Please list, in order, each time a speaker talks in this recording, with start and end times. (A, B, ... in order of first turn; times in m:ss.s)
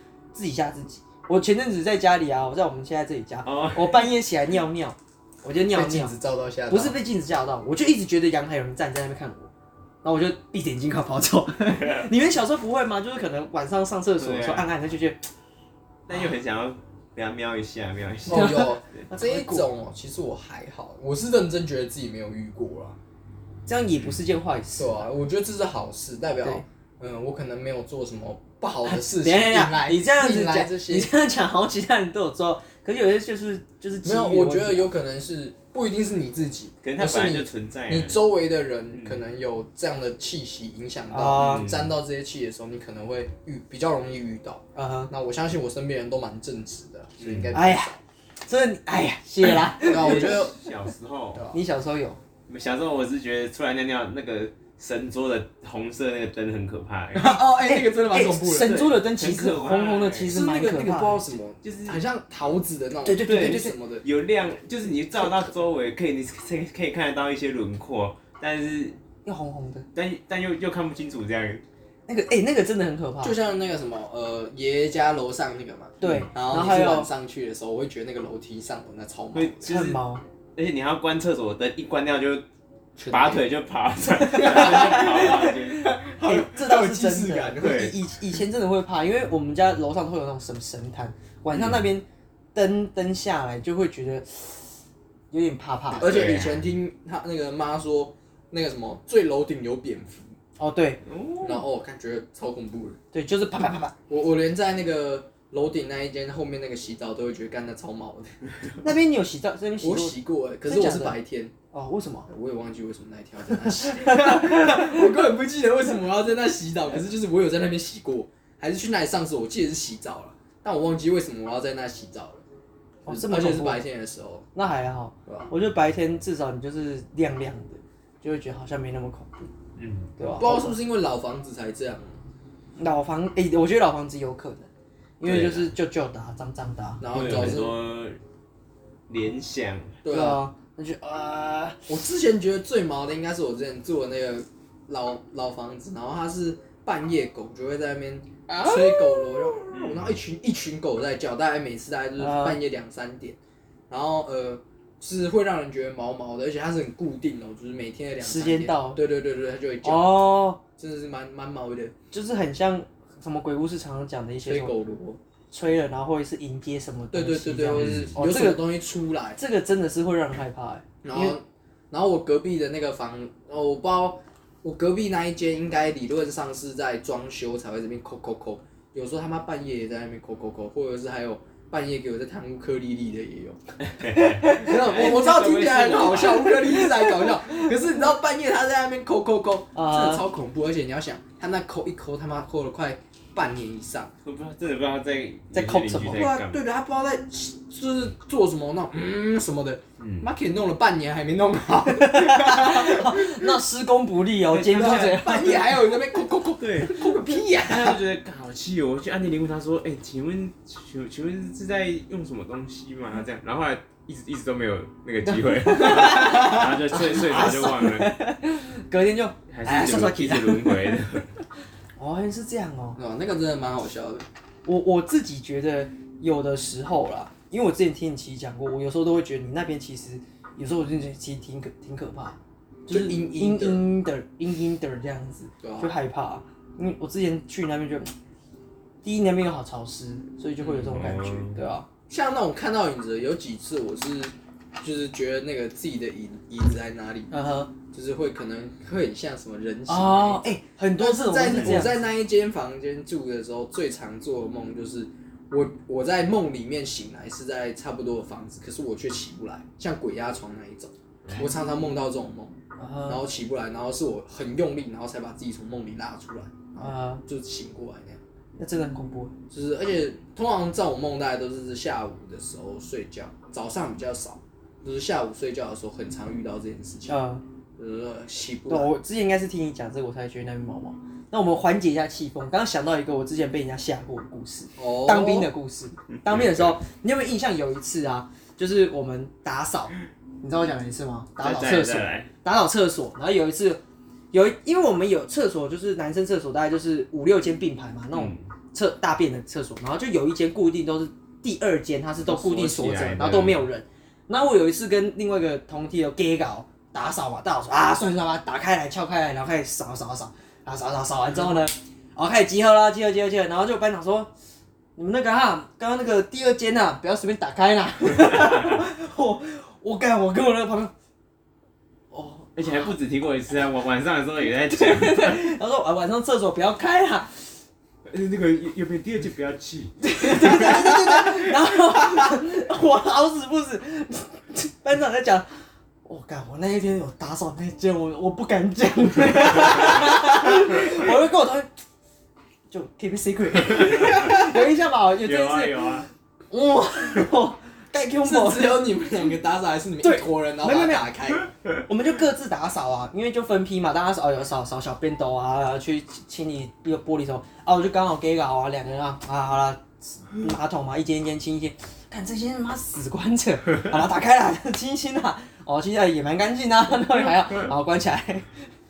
0:00.3-0:06.1 A
0:03.4-0:04.1 B
0:05.7-0:07.0 C
0:06.7-0:09.5 A
0:10.0-0:15.3 A
0:11.8-0:12.1 B
0:14.2-0:14.7 B
0:16.1-0:18.6 B
0:18.3-0:23.0 C
0:18.3-0:19.7 A
0:23.7-0:25.1 A
0:24.8-0:31.1 C
0:28.8-0:34.9 A
0:34.0-0:48.0 C
0:36.8-0:38.2 B
0:38.9-0:39.2 B
0:41.1-0:41.7 A
0:41.4-0:41.9 B
0:44.7-0:45.1 A
0:47.2-0:47.5 B
0:47.5-0:47.9 A
0:48.5-0:50.4 A
0:49.5-0:51.4 B
0:49.8-0:50.5 C
0:51.5-0:52.2 A
0:52.5-0:57.3 B
0:57.1-0:58.8 C
0:57.2-1:01.4 A
0:58.6-1:00.4 B
1:00.3-1:04.0 C
1:01.6-1:02.0 B
1:03.0-1:03.8 A
1:03.2-1:09.0 B
1:09.2-1:09.9 A
1:09.9-1:11.6 B
1:12.1-1:13.4 A
1:13.2-1:19.7 C
1:16.0-1:17.1 A
1:19.3-1:20.0 B
1:19.7-1:20.2 A
1:20.6-1:22.4 B
1:23.0-1:23.5 C
1:23.1-1:26.0 B
1:24.2-1:34.8 A
1:24.4-1:25.5 C
1:26.2-1:27.9 C
1:27.6-1:28.0 B
1:31.5-1:31.9 B
1:35.3-1:36.2 A
1:36.0-1:40.3 C
1:36.0-1:36.7 B
1:40.6-1:41.0 A
1:41.1-1:41.7 B
1:41.4-1:43.0 C
1:43.1-1:44.0 A
1:44.1-1:48.4 C
1:48.8-1:51.2 A
1:49.8-1:51.5 C
1:51.7-1:52.3 A
1:52.3-2:02.4 C
1:53.8-1:55.0 A
2:03.1-2:04.5 C
2:03.1-2:03.8 A
2:04.6-2:09.5 A
2:09.8-2:10.1 B
2:10.2-2:10.8 A
2:10.4-2:12.2 C
2:12.8-2:14.7 A
2:15.2-2:17.5 A
2:15.2-2:15.7 B
2:17.0-2:17.8 C
2:17.1-2:18.2 B
2:19.1-2:20.0 B
2:20.0-2:20.4 C
2:20.1-2:21.9 A
2:21.9-2:33.4 C
2:28.5-2:29.3 A
2:29.7-2:30.2 B
2:32.2-2:32.6 A
2:33.9-2:41.9 C
2:38.2-2:39.0 A
2:39.8-2:40.6 A
2:42.1-2:44.7 A
2:44.4-2:45.2 C
2:45.5-2:48.7 A
2:47.1-2:49.4 C
2:47.7-2:48.1 B
2:49.4-2:51.4 A
2:51.0-3:03.6 C
3:03.8-3:06.6 B
3:04.2-3:04.8 A
3:04.4-3:14.1 C
3:09.7-3:10.2 A
3:14.2-3:16.6 B
3:15.5-3:16.3 A
3:16.1-3:23.6 C
3:20.0-3:20.3 B
3:21.9-3:25.8 A
3:24.5-3:25.6 B
3:24.7-3:28.0 C
3:26.6-3:38.1 B
3:35.3-3:40.9 A
3:39.5-3:41.4 B
3:42.0-3:43.0 A
3:43.0-3:44.2 C
3:44.7-3:58.1 A
3:52.9-3:53.9 C
3:55.6-3:55.9 C
3:59.0-4:01.9 A
4:00.6-4:01.6 B
4:02.1-4:07.3 C
4:07.3-4:07.7 A
4:07.9-4:28.2 C
4:09.9-4:12.0 A
4:22.8-4:23.2 A
4:26.8-4:27.2 A
4:28.6-4:29.4 A
4:29.5-4:37.2 C
4:37.1-4:37.4 A
4:37.8-4:38.9 C
4:38.7-4:53.8 A
4:44.8-4:45.5 C
4:46.2-4:46.8 B
4:51.4-4:52.3 B
4:54.3-5:14.3 A
4:58.1-4:58.5 B
5:02.2-5:03.7 B
5:15.0-5:20.9 A
5:18.4-5:18.8 B
5:22.1-5:22.9 A
5:22.6-5:25.5 B
5:24.7-5:27.5 A
5:28.1-5:31.5 B
5:30.0-5:35.5 A
5:36.0-5:41.7 A
5:42.7-5:48.9 A
5:43.7-5:44.6 B
5:45.2-5:46.1 B
5:48.2-5:51.5 C
5:50.0-5:51.1 A
5:51.8-6:08.6 A